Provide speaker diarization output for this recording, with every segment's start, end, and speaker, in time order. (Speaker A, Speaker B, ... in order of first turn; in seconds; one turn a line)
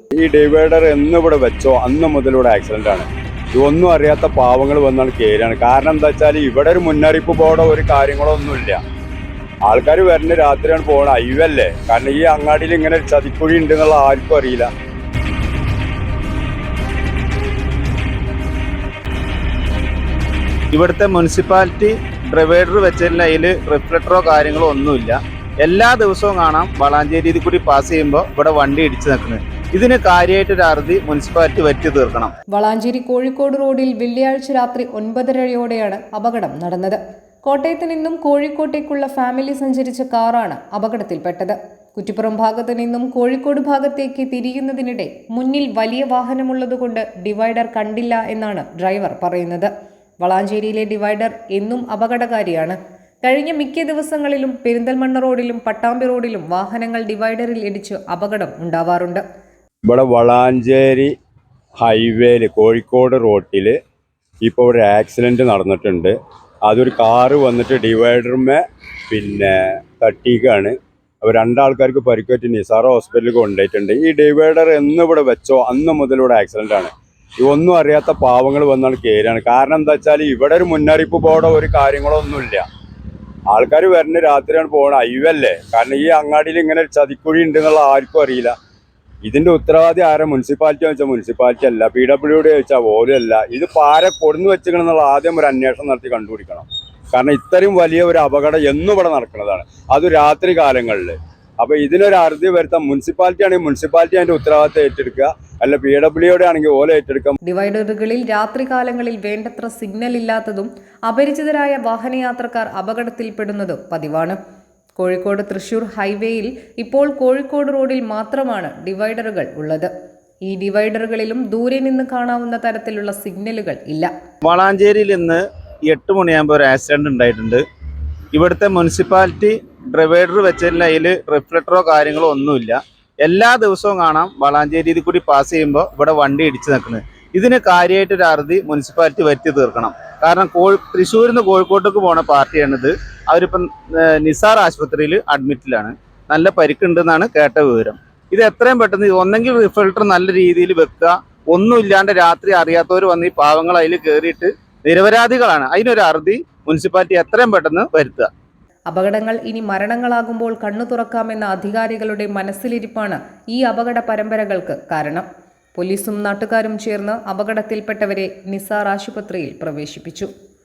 Speaker A: 0.2-8.8
Speaker A: 9.7-14.7
Speaker B: 20.7-32.3
Speaker C: 32.5-59.2
Speaker A: 59.9-61.1
Speaker A: 61.8-63.8
Speaker A: 64.4-66.1
Speaker A: 66.7-82.6
Speaker A: 83.5-88.5
Speaker A: 89.2-107.3
Speaker C: 107.4-114.4
Speaker C: 115.0-119.9
Speaker C: 120.5-124.1
Speaker B: 124.5-127.6
Speaker B: 128.3-158.3
Speaker C: 158.9-170.3